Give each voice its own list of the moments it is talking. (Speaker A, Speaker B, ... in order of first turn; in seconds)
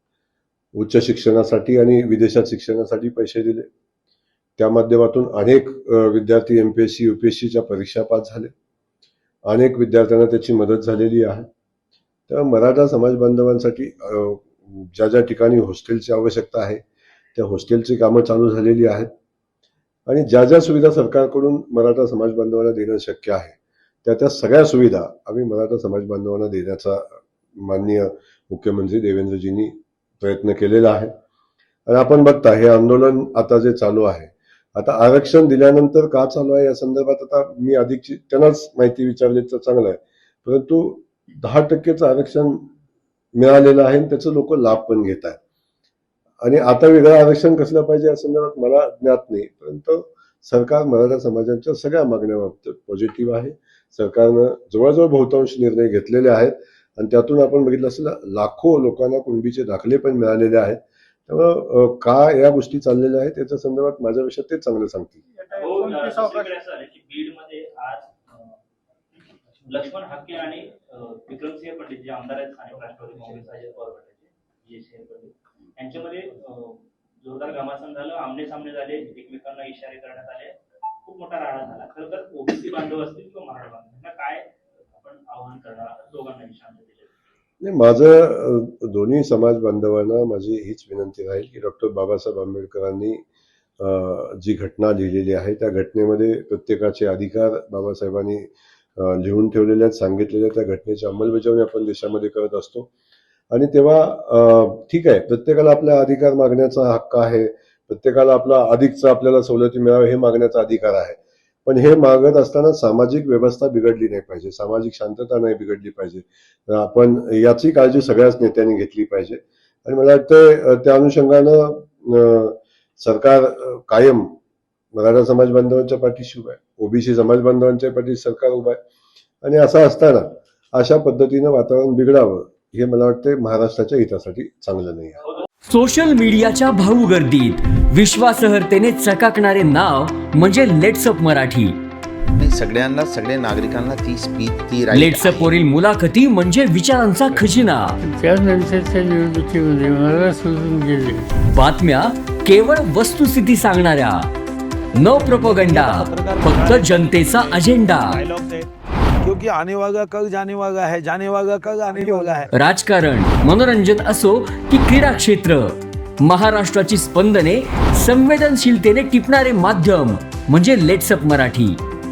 Speaker A: 0.8-3.6, 4.6-8.5, 9.5-11.5, 12.3-16.8, 17.3-19.1, 20.1-31.1, 31.9-42.6, 43.4-45.4, 46.4-65.2, 87.6-93.2, 93.8-102.9, 103.5-124.3, 125.0-128.8, 129.4-135.2
Speaker B: 65.5-68.1, 69.7-87.1
Speaker C: 135.7-141.8, 144.9-147.9, 151.4-154.3, 154.9-158.2, 162.5-171.8
Speaker D: 142.3-145.6
Speaker E: 148.0-151.2
Speaker F: 155.0-158.7, 159.2-162.5